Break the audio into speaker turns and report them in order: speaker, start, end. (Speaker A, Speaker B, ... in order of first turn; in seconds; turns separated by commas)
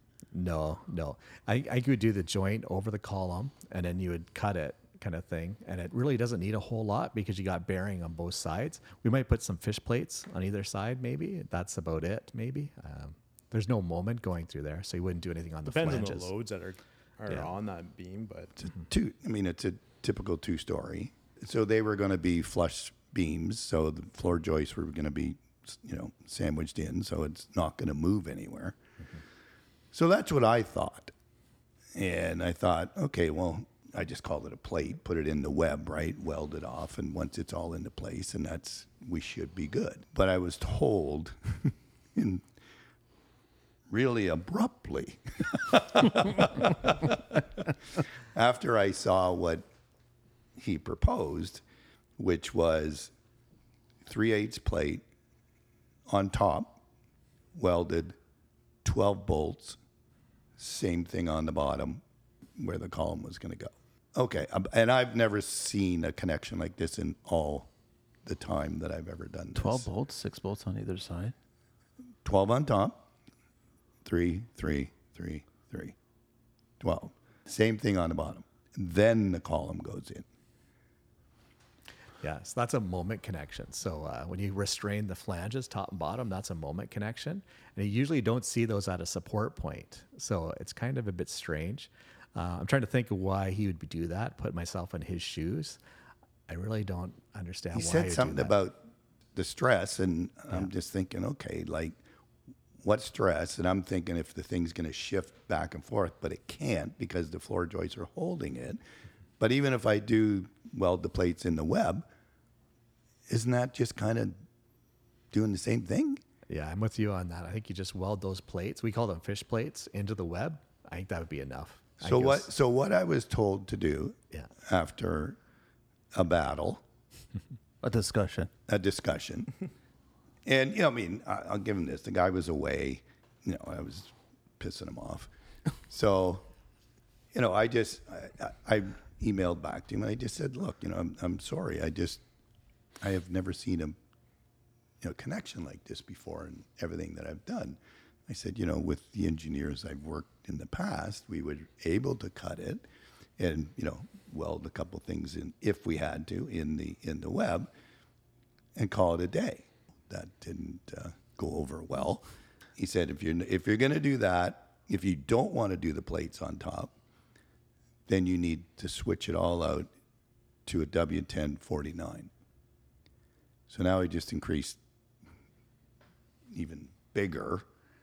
Speaker A: 0.3-16.3, Speaker B: 15.7-18.5, Speaker C: 18.6-28.8, Speaker C: 29.9-31.1, Speaker C: 31.9-42.4, Speaker C: 43.9-47.7, Speaker C: 48.3-49.6, Speaker C: 50.6-51.6, Speaker C: 52.2-53.1, Speaker C: 54.0-55.0, Speaker C: 56.1-56.8, Speaker C: 57.5-58.1, Speaker C: 58.8-59.8, Speaker C: 60.6-62.0, Speaker C: 62.6-67.7, Speaker C: 68.2-69.9, Speaker D: 69.5-71.3, Speaker C: 72.2-73.0, Speaker C: 74.0-75.9, Speaker C: 76.8-80.2, Speaker A: 82.2-95.8, Speaker A: 96.5-98.5, Speaker C: 97.7-98.8, Speaker C: 99.3-102.0, Speaker C: 102.8-108.8, Speaker C: 109.4-112.1, Speaker C: 113.3-114.4, Speaker C: 115.3-116.2, Speaker A: 116.5-122.5, Speaker C: 122.0-125.4, Speaker C: 126.1-126.8, Speaker D: 127.8-128.5, Speaker C: 128.7-129.5, Speaker C: 130.4-135.3, Speaker C: 135.9-136.4, Speaker C: 137.3-142.2, Speaker C: 143.0-143.9, Speaker C: 145.0-152.8, Speaker C: 153.4-157.7, Speaker C: 158.7-162.2, Speaker C: 162.8-166.9, Speaker C: 168.1-169.9, Speaker C: 170.7-172.3, Speaker C: 173.7-174.8, Speaker C: 176.5-177.6